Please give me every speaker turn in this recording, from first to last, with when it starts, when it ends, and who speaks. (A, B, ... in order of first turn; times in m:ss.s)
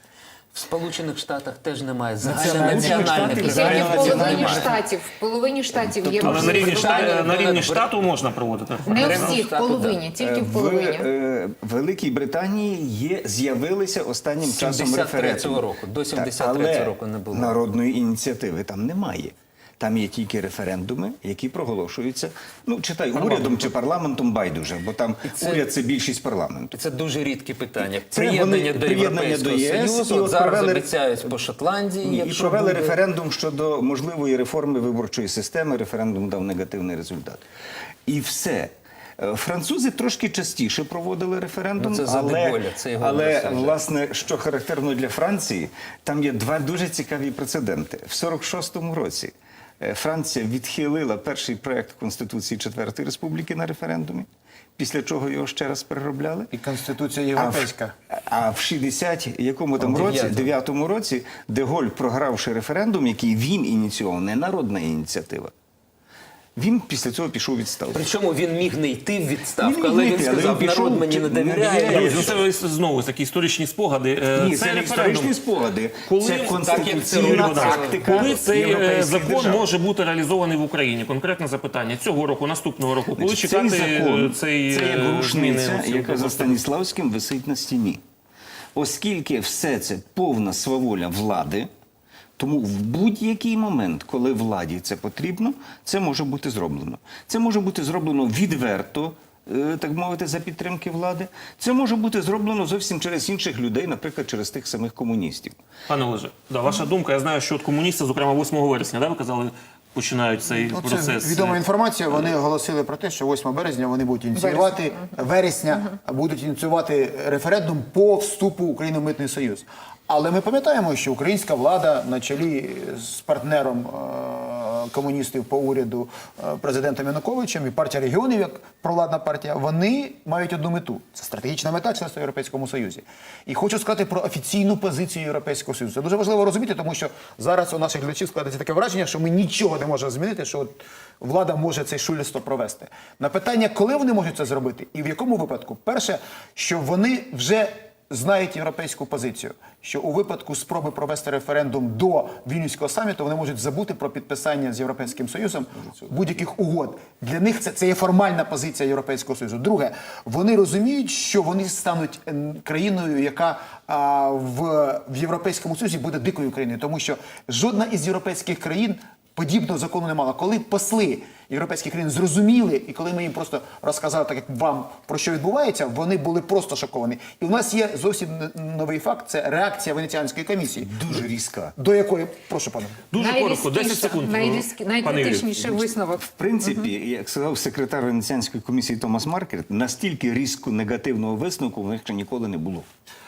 0:00.5-0:04.8 A
0:02.2-0:04.8 B
0:02.2-0:04.5 C
0:03.4-0:07.2 D
0:05.7-0:07.0 B
0:06.2-0:08.0 A
0:06.2-0:09.4 E
0:08.9-0:10.0 A
0:08.9-0:11.1 D
0:10.2-0:26.7 B
0:14.4-0:17.6 A
0:23.1-0:23.7 A
0:25.2-0:25.7 A
0:26.7-0:33.0 A
0:28.0-0:30.9 B
0:32.0-0:37.4 B
0:38.1-0:56.5 B
0:41.8-0:43.8 A
0:56.5-0:57.9 C
0:57.4-1:05.5 B
0:59.8-1:00.5 A
1:06.6-1:08.1 B
1:07.9-1:12.4 A
1:09.6-1:12.4 B
1:11.8-1:15.4 E
1:14.4-1:19.7 B
1:16.1-1:26.6 E
1:16.4-1:18.4 A
1:23.2-1:28.0 B
1:28.7-1:31.7 B
1:32.4-1:45.5 B
1:45.9-1:51.6 E
1:50.7-3:01.1 C
1:54.4-1:55.1 D
3:00.8-3:01.7 B
3:01.8-3:03.0 C
3:03.1-3:05.5 E
3:03.1-3:06.9 D
3:05.6-3:12.9 B